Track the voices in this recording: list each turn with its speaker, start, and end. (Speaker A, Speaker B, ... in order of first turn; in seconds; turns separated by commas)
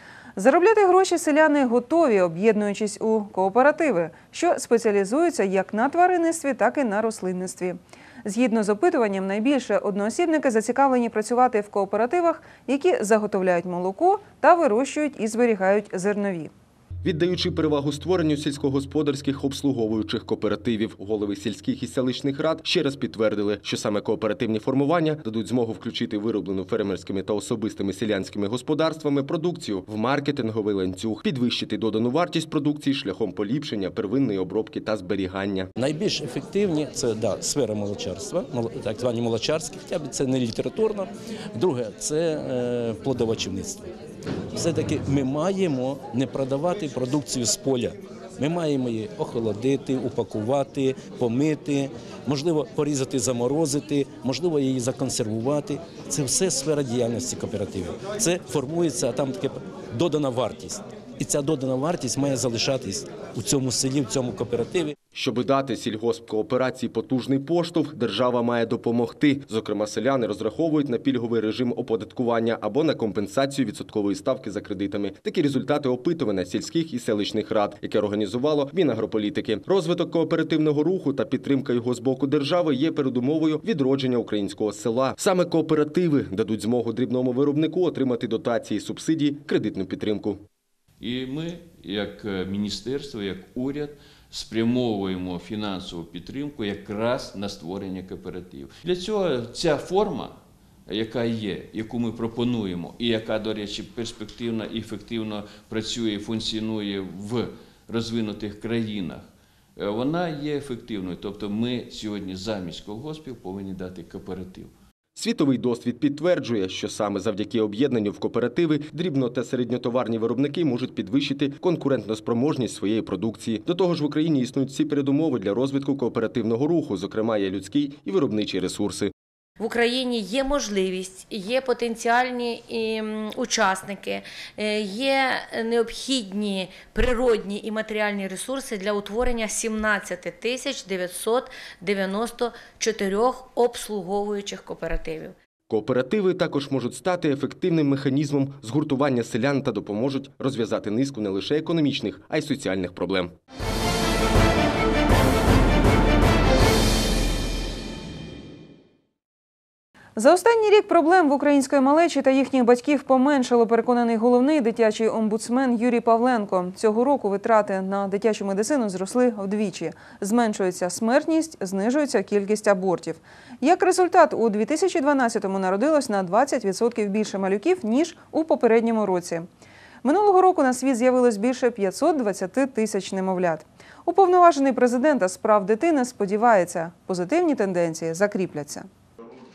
Speaker A: 0.4-16.5, Speaker B: 17.0-35.7, Speaker C: 35.8-43.8, Speaker C: 44.5-64.9, Speaker B: 65.1-90.4, Speaker D: 91.0-114.7, Speaker B: 115.2-129.1, Speaker E: 129.6-145.3, Speaker B: 145.7-153.3, Speaker A: 160.2-179.4, Speaker A: 180.0-188.8